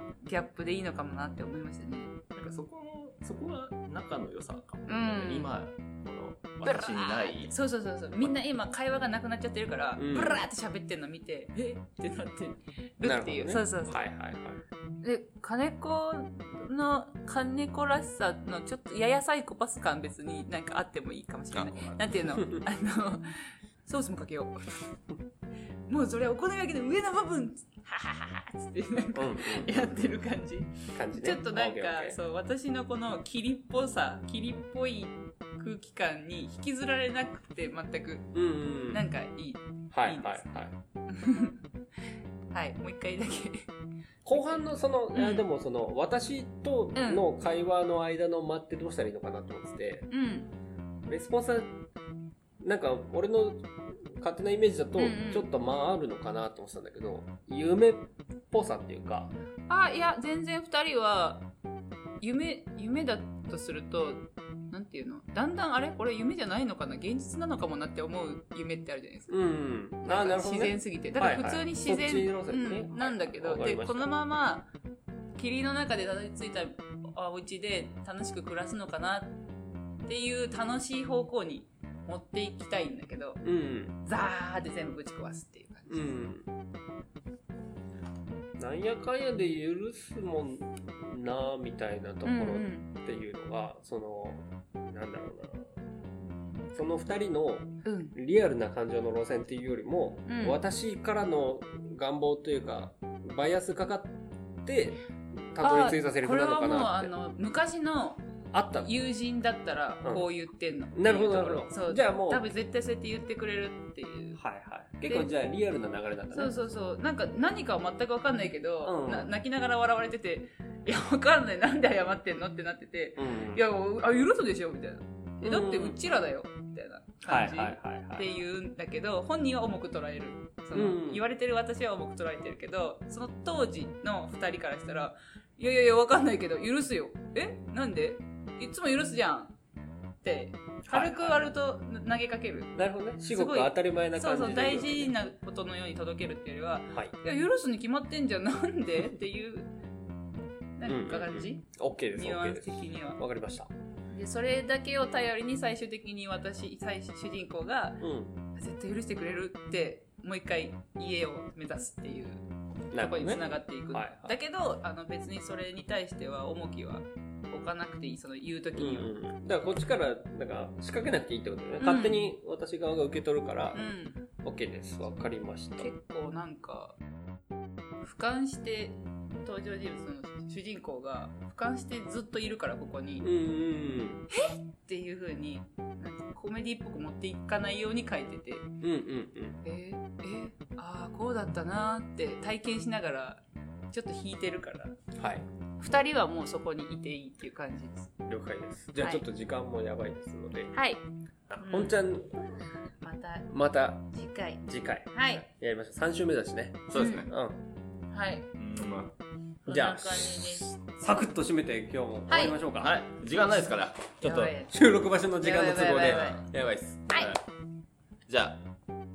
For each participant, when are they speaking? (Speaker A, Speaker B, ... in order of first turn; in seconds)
Speaker A: 0.2-2.2, 4.9-5.5, 6.6-14.0, 15.0-24.9, 25.9-41.6, 42.5-43.7, 44.3-45.4, 47.0-47.2, 50.1-50.5, 55.0-55.5, 59.7-61.5, 62.2-69.4, 70.0-74.7, 75.3-79.3, 80.0-83.4, 84.0-86.2, 92.2-92.9, 97.8-98.1, 100.2-100.6, 105.6-108.2, 108.8-114.4, 116.3-139.5, 140.2-149.7, 150.8-153.2, 154.1-169.1, 171.8-172.3, 173.7-174.2, 175.8-177.0, 178.0-183.3, 184.3-188.7, 189.6-194.9, 195.8-198.1, 199.0-199.2, 200.7-201.0, 201.6-202.0, 203.0-203.5, 204.1-205.4, 206.9-207.2, 208.1-208.5, 209.7-210.7, 212.3-212.6, 214.2-216.4
Speaker B: 2.3-7.5, 21.5-22.0, 206.9-207.3, 208.6-209.1, 212.8-214.5, 216.0-216.4, 217.1-217.4, 218.3-218.6
Speaker C: 9.9-10.4, 13.0-14.6, 29.1-30.0, 30.9-32.2, 38.3-39.1, 39.9-40.7, 44.2-50.1, 51.1-51.7, 52.6-59.3, 69.3-74.1, 83.4-84.0, 85.9-86.5, 88.6-95.7, 96.7-105.0, 105.5-107.1, 108.5-108.9, 110.9-112.5, 114.3-116.5, 118.8-119.3, 123.2-123.6, 125.4-126.0, 127.3-128.3, 130.7-131.2, 140.8-141.4, 142.8-145.1, 150.8-153.7, 158.0-158.3, 162.9-164.3, 168.7-173.8, 174.4-175.9, 183.2-184.3, 188.8-189.6, 195.2-195.4, 198.2-200.7, 201.5-202.4, 203.5-204.1, 204.6-207.6, 209.7-212.9, 214.2-217.3